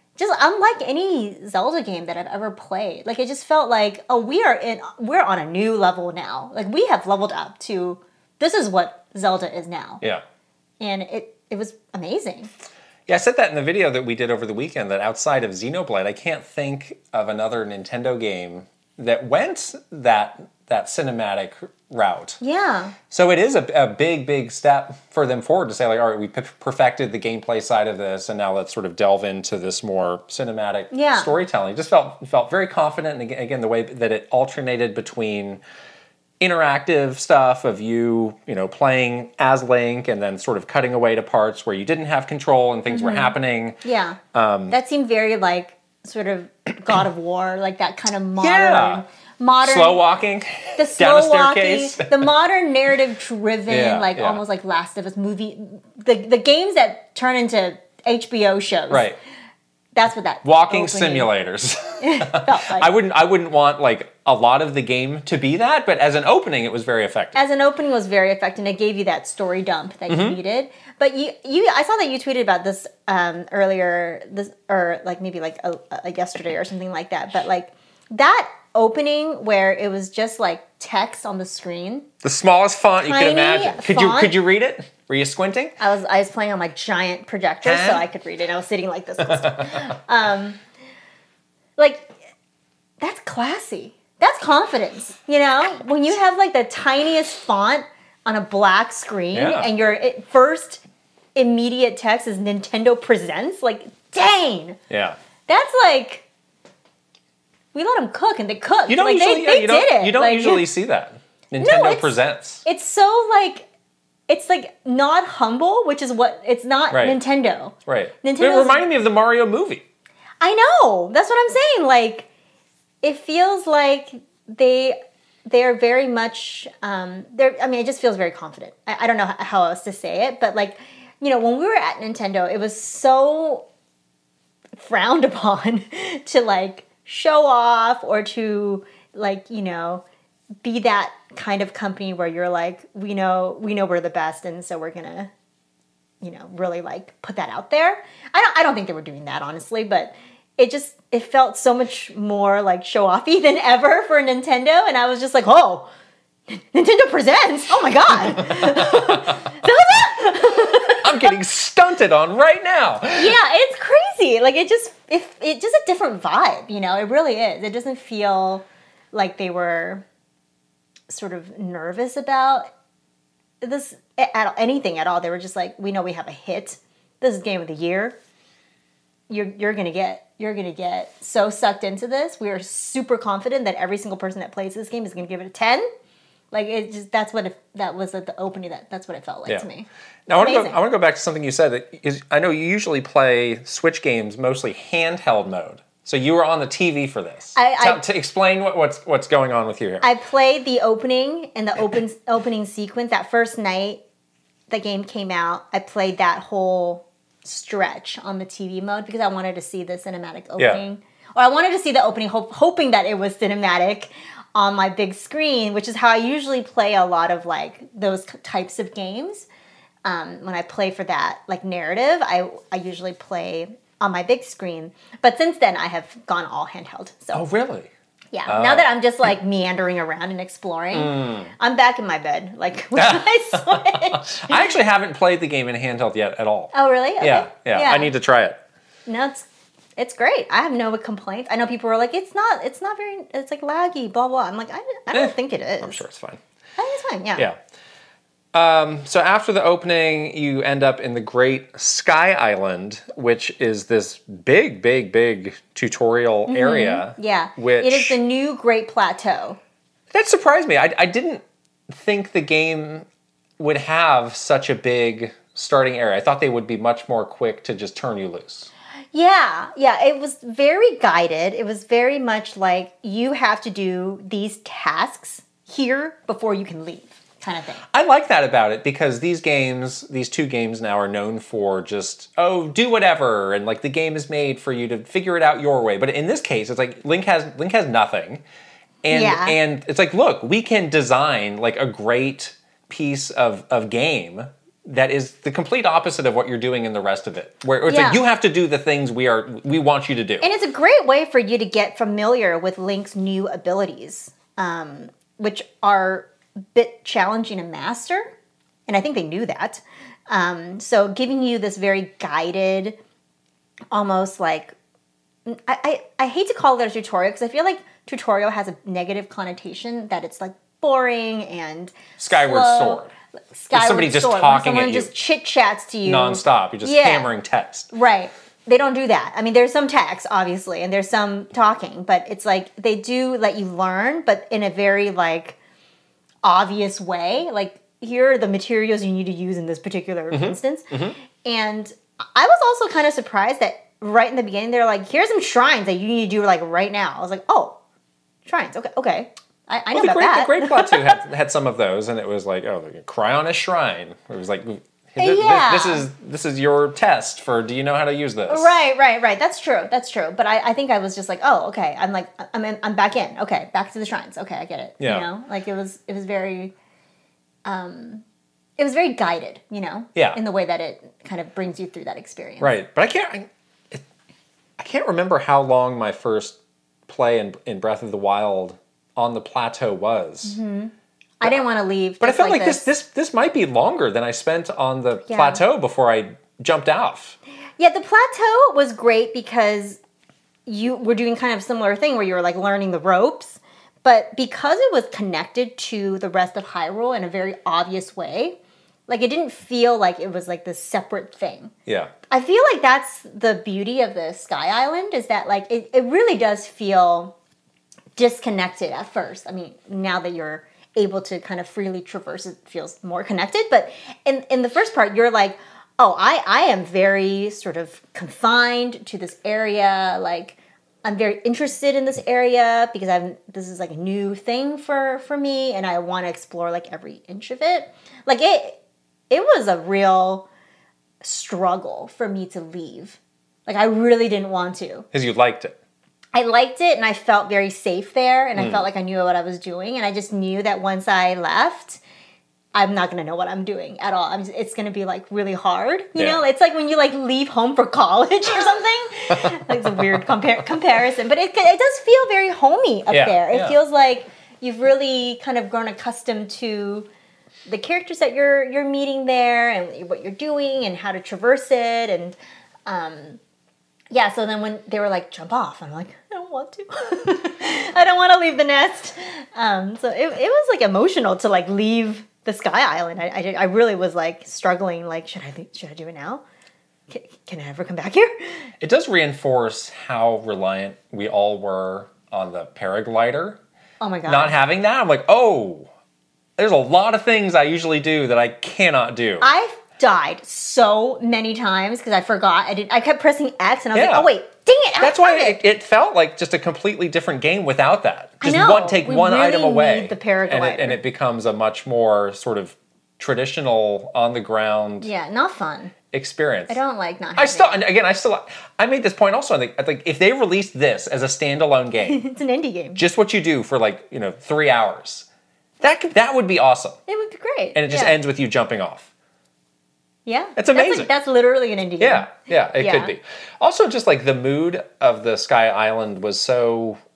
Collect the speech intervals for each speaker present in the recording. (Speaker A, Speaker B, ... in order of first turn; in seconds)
Speaker A: 0.2-10.0, 10.8-12.5, 22.4-22.9, 30.9-31.3, 42.9-44.2, 44.7-50.0, 50.8-59.1, 60.0-61.3, 62.0-62.9, 67.3-82.1, 83.0-84.4, 85.8-90.6, 91.8-92.1, 93.0-100.8, 101.4-104.8, 105.5-106.3, 107.7-110.7, 111.6-113.7, 114.3-118.8, 120.4-122.3, 123.0-133.7, 134.8-140.0, 140.6-145.3, 146.2-155.9, 156.5-161.3, 163.2-170.0, 171.1-172.7, 173.6-178.2, 179.3-185.9, 186.5-190.8, 197.6-198.0, 200.0-204.0, 204.7-219.5, 220.1-227.4, 228.3-234.8, 236.7-238.1, 239.1-239.4, 240.0-246.0, 246.8-247.5, 256.5-259.6, 269.1-277.8, 289.1-289.6, 297.9-298.2, 300.4-308.3, 308.9-313.0, 313.9-314.8, 315.5-323.0, 323.5-327.3, 327.9-335.6, 336.4-347.8, 348.4-351.2, 355.2-356.1, 358.5-366.7, 367.6-368.2, 368.8-372.8, 380.4-382.9, 385.3-385.6, 387.8-390.0, 390.7-401.7, 402.3-407.3, 408.2-428.8, 429.3-430.5, 431.2-435.1, 436.4-442.0, 442.7-457.1, 457.7-463.4, 464.1-476.4, 477.1-478.7, 484.0-484.5, 489.4-495.6, 498.4-501.0, 505.0-505.9, 506.7-507.8, 512.0-513.0, 517.1-518.2, 520.3-523.1
Speaker B: 13.1-22.4, 23.1-35.6, 36.4-43.8, 44.3-44.8, 48.4-49.0, 49.6-52.3, 53.7-54.4, 58.9-59.2, 60.4-67.4, 70.1-70.4, 82.2-85.8, 87.6-88.0, 89.3-89.9, 99.3-99.7, 104.9-105.2, 108.9-112.6, 116.9-117.2, 117.9-119.8, 158.3-159.4, 161.0-163.3, 190.3-200.1, 210.6-210.8, 227.3-227.9, 228.5-228.9, 230.9-231.5, 233.0-238.6, 245.1-246.4, 248.5-258.2, 260.1-263.1, 263.6-268.7, 277.9-288.4, 289.0-300.5, 322.2-323.1, 323.7-325.1, 326.1-327.9, 340.3-341.2, 349.9-358.7, 365.0-365.3, 372.6-374.0, 374.8-380.6, 382.2-387.4, 401.9-402.1, 435.1-435.8, 438.6-438.9, 446.2-446.4, 453.1-453.8, 478.8-483.6, 484.3-485.9, 486.6-489.5, 493.9-494.3, 495.0-505.1, 506.1-506.8, 507.4-512.2, 513.0-515.3, 515.8-517.0, 517.7-519.1, 520.6-521.1, 522.0-527.0